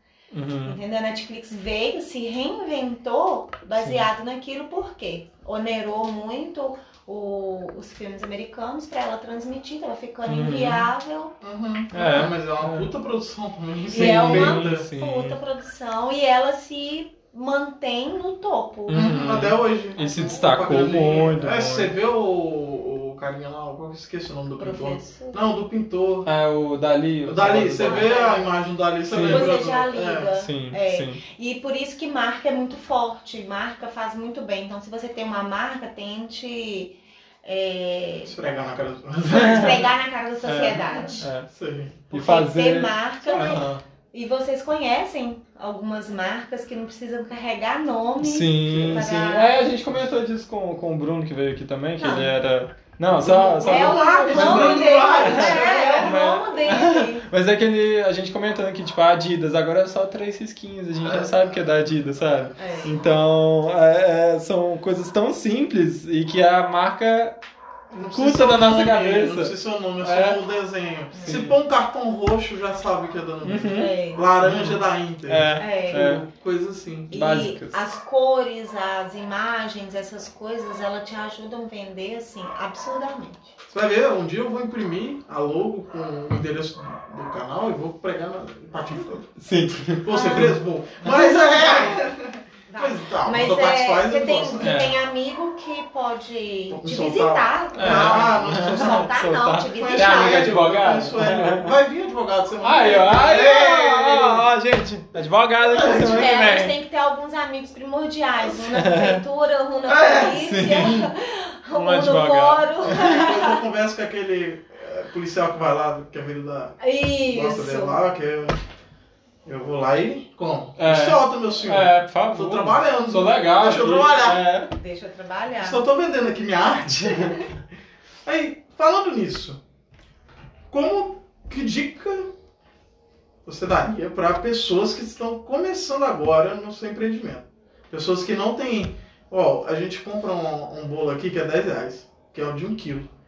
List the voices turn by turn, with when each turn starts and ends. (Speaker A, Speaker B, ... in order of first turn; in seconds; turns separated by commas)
Speaker A: 0.3-0.8, Speaker B: 0.7-11.3, Speaker A: 3.8-4.0, Speaker A: 10.3-10.9, Speaker C: 11.4-14.9, Speaker A: 11.9-12.9, Speaker B: 13.9-19.2, Speaker A: 13.9-15.4, Speaker A: 18.9-21.9, Speaker C: 18.9-26.3, Speaker B: 24.6-25.4, Speaker A: 26.2-28.2, Speaker C: 27.3-30.4, Speaker B: 27.8-28.6, Speaker A: 29.1-29.5, Speaker B: 29.2-38.4, Speaker A: 30.4-31.2, Speaker C: 38.2-39.9, Speaker B: 39.3-41.3, Speaker A: 39.3-39.8, Speaker A: 40.4-41.5, Speaker C: 41.5-42.1, Speaker A: 42.1-43.8, Speaker B: 42.1-49.6, Speaker C: 43.3-43.6, Speaker A: 48.2-67.4, Speaker C: 48.7-49.1, Speaker B: 52.0-52.3, Speaker C: 53.1-56.2, Speaker B: 53.6-57.3, Speaker C: 61.0-61.4, Speaker B: 62.6-63.0, Speaker A: 67.9-70.4, Speaker C: 67.9-77.1, Speaker B: 71.1-71.4, Speaker A: 71.2-71.5, Speaker A: 73.4-76.3, Speaker B: 73.7-74.3, Speaker B: 75.6-76.1, Speaker A: 77.1-77.8, Speaker B: 77.1-83.5, Speaker C: 83.7-89.4, Speaker A: 89.4-90.5, Speaker C: 90.0-94.8, Speaker B: 90.1-92.1, Speaker B: 92.7-100.5, Speaker A: 94.6-95.0, Speaker C: 96.7-99.1, Speaker A: 97.8-101.7, Speaker C: 99.7-104.5, Speaker A: 102.6-106.8, Speaker C: 105.7-106.3, Speaker B: 105.9-113.6, Speaker A: 108.6-109.2, Speaker C: 109.9-110.4, Speaker A: 110.3-111.1, Speaker A: 111.7-112.9, Speaker C: 112.8-118.6, Speaker B: 116.8-118.0, Speaker C: 119.5-124.4, Speaker A: 120.8-124.7, Speaker B: 124.7-125.8, Speaker C: 125.6-127.5, Speaker C: 128.2-129.6, Speaker C: 130.7-132.3, Speaker C: 133.5-143.1